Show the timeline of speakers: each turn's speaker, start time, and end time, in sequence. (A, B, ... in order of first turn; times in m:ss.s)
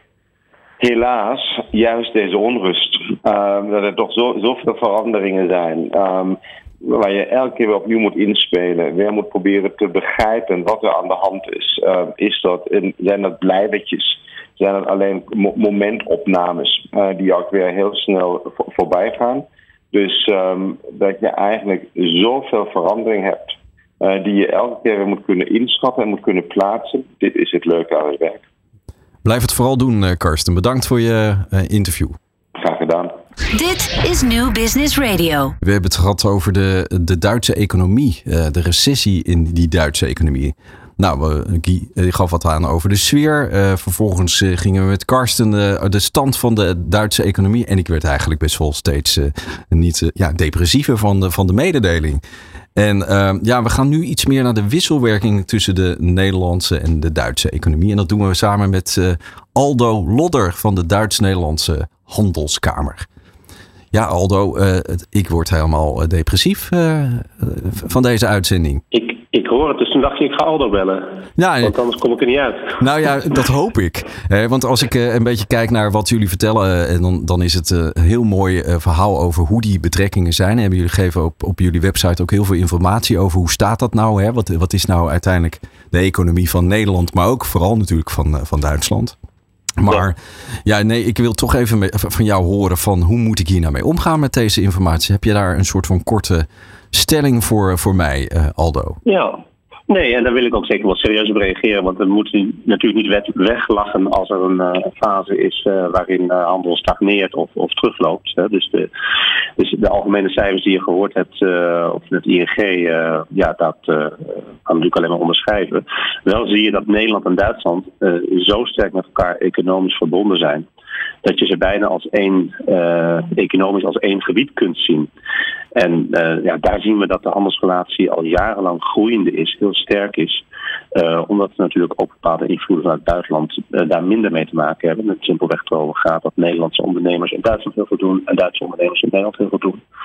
0:00.8-0:28.4 A
0:29.2-0:32.2 B
0:32.6-0:33.2 A
0:33.5-0:35.6 C
0:35.6-0:52.2 B
0:52.8-1:03.1 B
1:03.9-1:08.8 B
1:08.9-1:12.8 D
1:11.4-1:11.8 B
1:12.8-1:29.2 B
1:29.8-1:39.0 B
1:39.0-1:48.9 D
1:49.6-2:00.6 D
2:01.2-2:05.1 D
2:05.7-2:10.4 D
2:10.9-2:19.8 D